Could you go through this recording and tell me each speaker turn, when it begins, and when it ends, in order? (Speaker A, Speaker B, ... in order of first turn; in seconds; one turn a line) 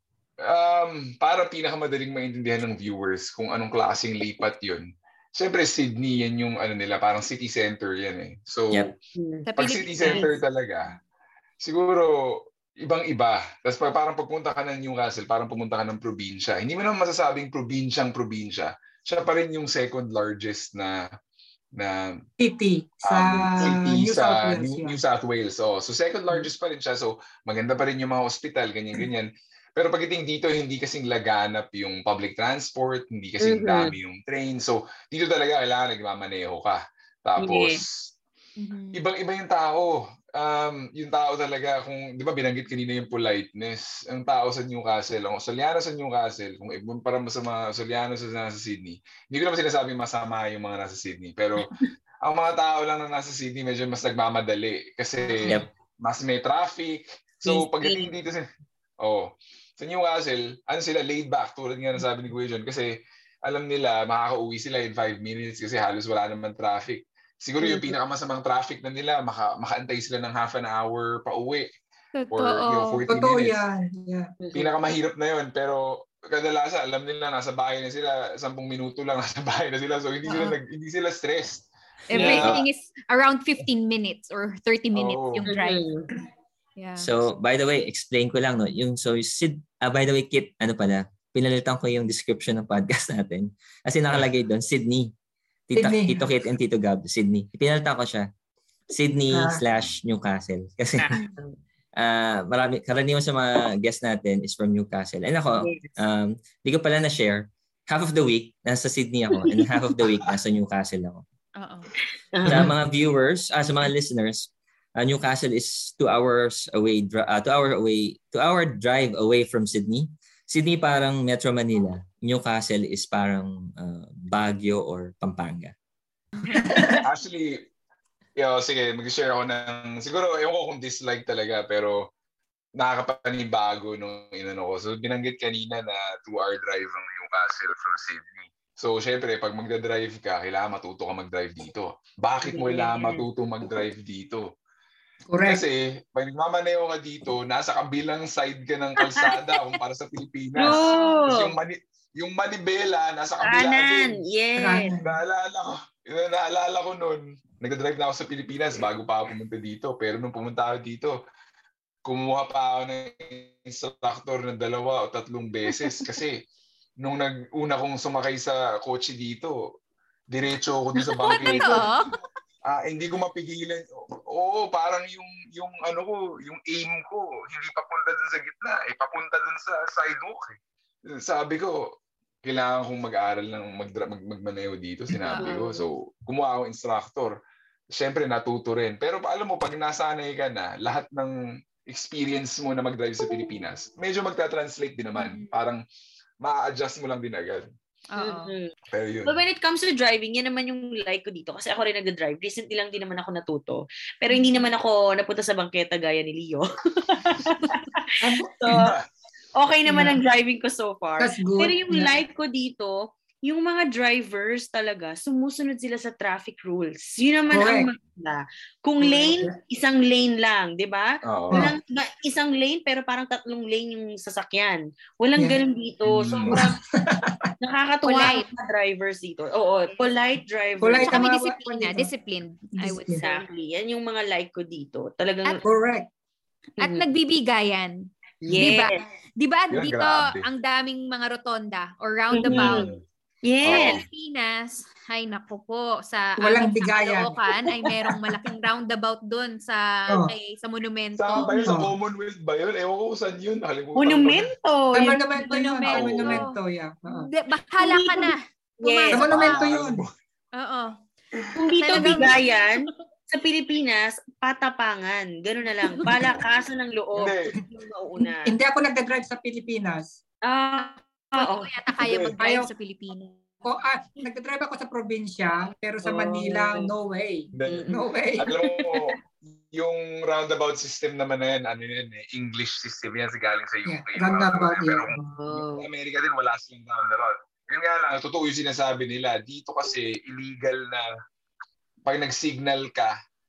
Speaker A: 0.4-8.9
Speaker B: 9.2-9.5
Speaker C: 9.5-10.4
Speaker A: 9.6-11.0
Speaker B: 10.1-10.3
Speaker A: 11.6-21.1
Speaker A: 21.8-22.2
Speaker D: 22.4-25.0
Speaker A: 23.1-38.1
Speaker B: 33.4-34.0
Speaker B: 37.4-37.8
Speaker C: 38.6-39.0
Speaker A: 38.9-58.5
Speaker C: 55.2-55.6
Speaker B: 57.5-58.1
Speaker A: 59.0-71.7
Speaker B: 67.6-67.9
Speaker C: 72.1-73.0
Speaker A: 72.3-73.6
Speaker D: 73.1-74.3
Speaker B: 74.4-74.7
Speaker A: 74.5-82.7
Speaker C: 80.2-80.6
Speaker C: 82.1-85.9
Speaker B: 82.1-82.4
Speaker A: 84.9-85.5
Speaker B: 85.5-86.1
Speaker C: 86.8-87.1
Speaker E: 87.0-95.1
Speaker E: 95.7-98.3
Speaker D: 95.8-96.3
Speaker E: 98.9-101.2
Speaker D: 99.3-99.6
Speaker B: 101.0-101.6
Speaker E: 102.0-111.2
Speaker B: 105.6-105.9
Speaker B: 109.4-109.6
Speaker C: 111.6-111.9
Speaker B: 112.3-112.7
Speaker E: 112.5-125.7
Speaker C: 126.4-126.7
Speaker A: 127.0-127.7
Speaker A: 128.4-132.1
Speaker A: 132.8-144.6
Speaker B: 142.4-143.3
Speaker D: 145.3-145.6
Speaker A: 145.5-154.2
Speaker B: 149.1-149.3
Speaker B: 150.6-151.6
Speaker B: 153.4-154.9
Speaker D: 154.6-155.2
Speaker A: 155.0-161.2
Speaker A: 162.0-166.4
Speaker A: 167.0-169.8
Speaker A: 170.3-172.0
Speaker C: 171.1-172.2
Speaker A: 172.7-180.6
Speaker A: 181.1-187.4
Speaker C: 185.2-185.6
Speaker B: 185.4-185.8
Speaker A: 187.9-195.8
Speaker C: 195.2-195.5
Speaker A: 196.4-197.7
Speaker C: 198.1-198.5
Speaker B: 198.2-198.7
Speaker A: 198.9-199.4
Speaker B: 199.2-208.9
Speaker C: 204.3-204.7
Speaker D: 208.2-208.5
Speaker A: 208.7-209.1
Speaker B: 209.6-226.8
Speaker D: 209.9-210.2
Speaker D: 211.2-212.2
Speaker D: 217.5-217.9
Speaker D: 219.0-219.5
Speaker A: 221.2-221.8
Speaker A: 226.0-226.7
Speaker D: 226.5-227.5
Speaker B: 227.6-231.2
Speaker C: 228.1-228.5
Speaker D: 230.8-232.1
Speaker C: 231.1-233.4
Speaker D: 232.8-233.2
Speaker B: 233.2-235.6
Speaker D: 235.6-236.1
Speaker C: 236.8-242.9
Speaker B: 238.4-239.0
Speaker A: 239.7-240.5
Speaker B: 242.3-242.9
Speaker A: 242.5-243.0
Speaker B: 243.4-244.0
Speaker A: 243.6-244.1
Speaker C: 243.7-251.8
Speaker D: 246.4-247.4
Speaker A: 251.2-254.5
Speaker D: 251.6-251.9
Speaker B: 254.0-255.2
Speaker D: 254.9-257.3
Speaker C: 255.3-256.5
Speaker A: 255.9-256.5
Speaker C: 257.1-259.7
Speaker B: 257.8-259.3
Speaker D: 259.1-260.0
Speaker A: 259.2-260.1
Speaker C: 260.5-260.9
Speaker A: 261.3-261.6
Speaker B: 261.6-268.6
Speaker C: 261.8-262.9
Speaker D: 266.1-266.3
Speaker A: 267.2-267.6
Speaker D: 268.2-270.1
Speaker B: 270.4-271.7
Speaker C: 270.8-273.4
Speaker A: 272.0-272.4
Speaker D: 272.4-272.7
Speaker D: 273.6-278.5
Speaker B: 276.0-276.9
Speaker A: 277.6-291.1
Speaker B: 277.7-279.1
Speaker D: 283.9-285.1
Speaker B: 285.2-285.9
Speaker A: 292.1-293.1